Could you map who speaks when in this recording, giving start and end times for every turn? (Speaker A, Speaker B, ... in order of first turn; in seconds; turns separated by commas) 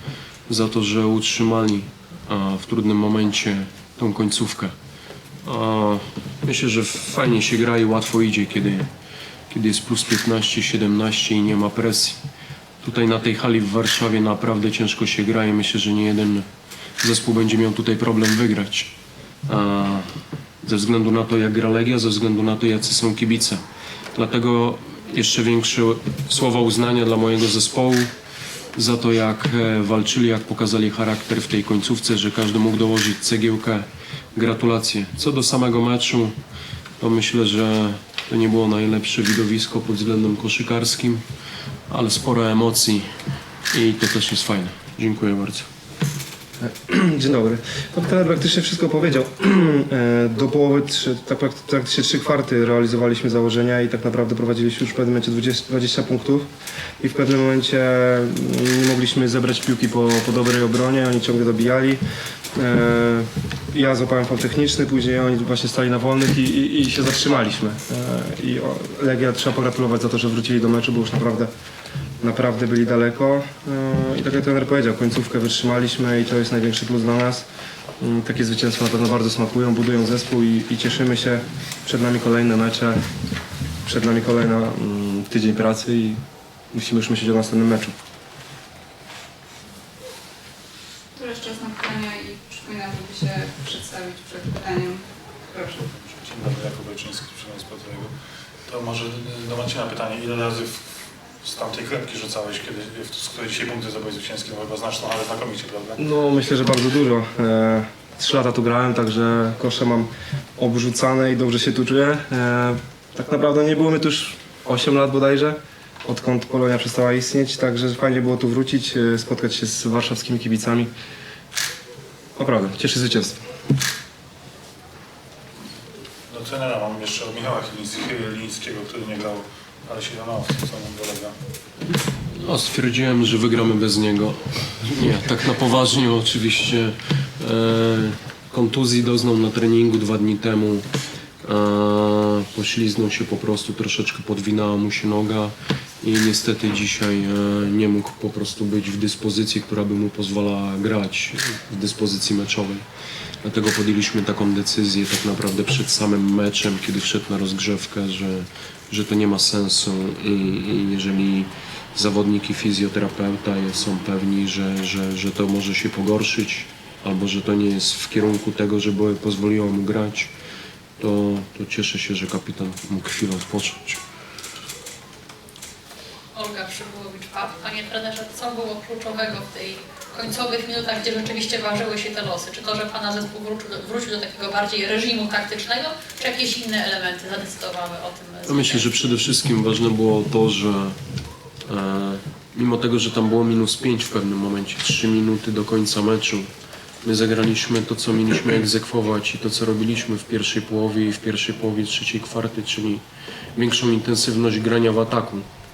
Speaker A: 0.5-4.7, Speaker A: 5.4-8.9, Speaker A: 9.5-12.2, Speaker A: 12.8-16.4, Speaker A: 17.0-18.9, Speaker A: 19.5-20.1, Speaker A: 20.6-23.6, Speaker A: 24.1-28.1, Speaker A: 28.8-36.3, Speaker A: 37.0-41.2, Speaker A: 41.9-43.0, Speaker A: 43.7-45.7, Speaker B: 46.6-56.5, Speaker B: 57.0-62.0, Speaker B: 62.5-71.5, Speaker B: 72.2-77.4, Speaker B: 78.0-83.0, Speaker B: 83.8-86.2, Speaker B: 86.7-87.9, Speaker C: 92.4-94.6, Speaker D: 96.0-98.1, Speaker D: 98.7-106.0, Speaker B: 106.0-120.9, Speaker B: 122.4-123.4, Speaker D: 126.3-131.3, Speaker A: 132.0-140.8, Speaker A: 141.4-152.8, Speaker A: 153.4-170.3, Speaker A: 171.0-174.0, Speaker E: 176.3-188.8, Speaker A: 188.4-190.9, Speaker A: 191.7-196.5, Speaker A: 197.0-203.0, Speaker A: 203.6-205.4